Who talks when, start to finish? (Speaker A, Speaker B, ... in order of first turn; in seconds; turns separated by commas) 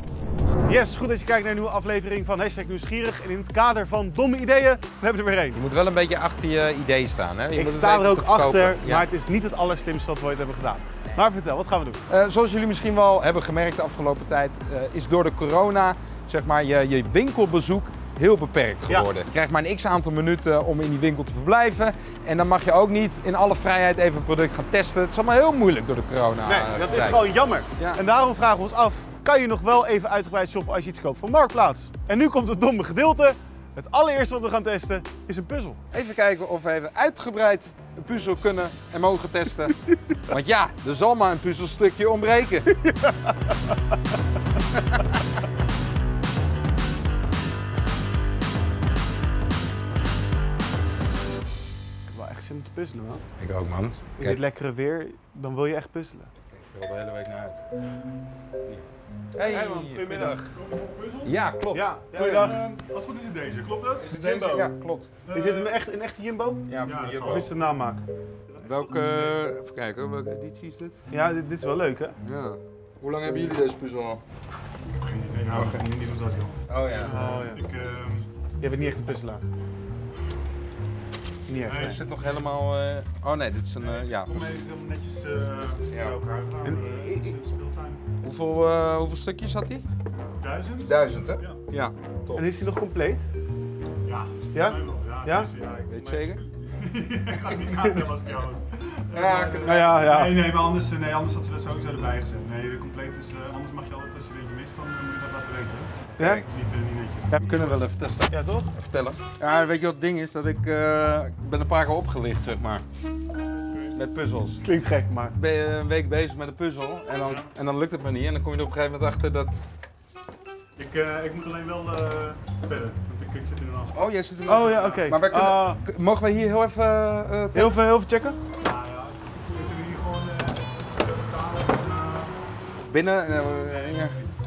Speaker A: 0.7-5.6, Speaker B: 5.5-9.1, Speaker A: 7.5-12.0, Speaker B: 12.1-28.0, Speaker A: 26.4-35.8, Speaker B: 35.9-42.7, Speaker A: 42.8-43.5, Speaker A: 52.1-53.2, Speaker B: 53.4-54.4, Speaker A: 54.2-56.3, Speaker B: 56.5-57.6, Speaker B: 58.6-60.5, Speaker A: 59.4-60.4, Speaker C: 60.5-61.4, Speaker B: 61.2-62.6, Speaker A: 61.7-62.6, Speaker C: 62.2-64.7, Speaker B: 64.0-65.1, Speaker C: 65.2-65.8, Speaker A: 65.3-66.7, Speaker B: 66.7-67.5, Speaker C: 66.8-67.5, Speaker A: 67.2-68.0, Speaker C: 68.5-69.4, Speaker B: 68.6-71.0, Speaker A: 71.1-72.2, Speaker B: 72.2-74.2, Speaker C: 74.9-78.3, Speaker B: 75.5-75.8, Speaker B: 76.7-77.1, Speaker A: 77.0-77.7, Speaker A: 78.6-79.4, Speaker A: 81.5-82.0, Speaker C: 81.7-82.5, Speaker B: 81.8-84.5, Speaker C: 83.8-88.0, Speaker B: 85.9-86.2, Speaker A: 86.6-87.3, Speaker B: 88.2-89.8, Speaker C: 90.4-91.6, Speaker B: 90.8-92.5, Speaker A: 92.3-93.3, Speaker C: 94.0-107.8, Speaker A: 94.5-95.5, Speaker B: 95.9-96.5, Speaker A: 97.7-98.1, Speaker B: 99.1-100.1, Speaker A: 99.6-100.6, Speaker B: 106.1-106.5, Speaker A: 106.2-106.5, Speaker B: 107.5-112.8, Speaker A: 108.3-108.7, Speaker C: 113.5-114.0, Speaker B: 113.9-114.7, Speaker A: 114.6-115.4, Speaker B: 115.4-119.7, Speaker C: 117.2-117.5, Speaker C: 120.8-124.0, Speaker B: 123.9-127.8, Speaker A: 124.5-125.8, Speaker A: 127.5-128.4, Speaker C: 128.6-132.4, Speaker B: 132.8-134.2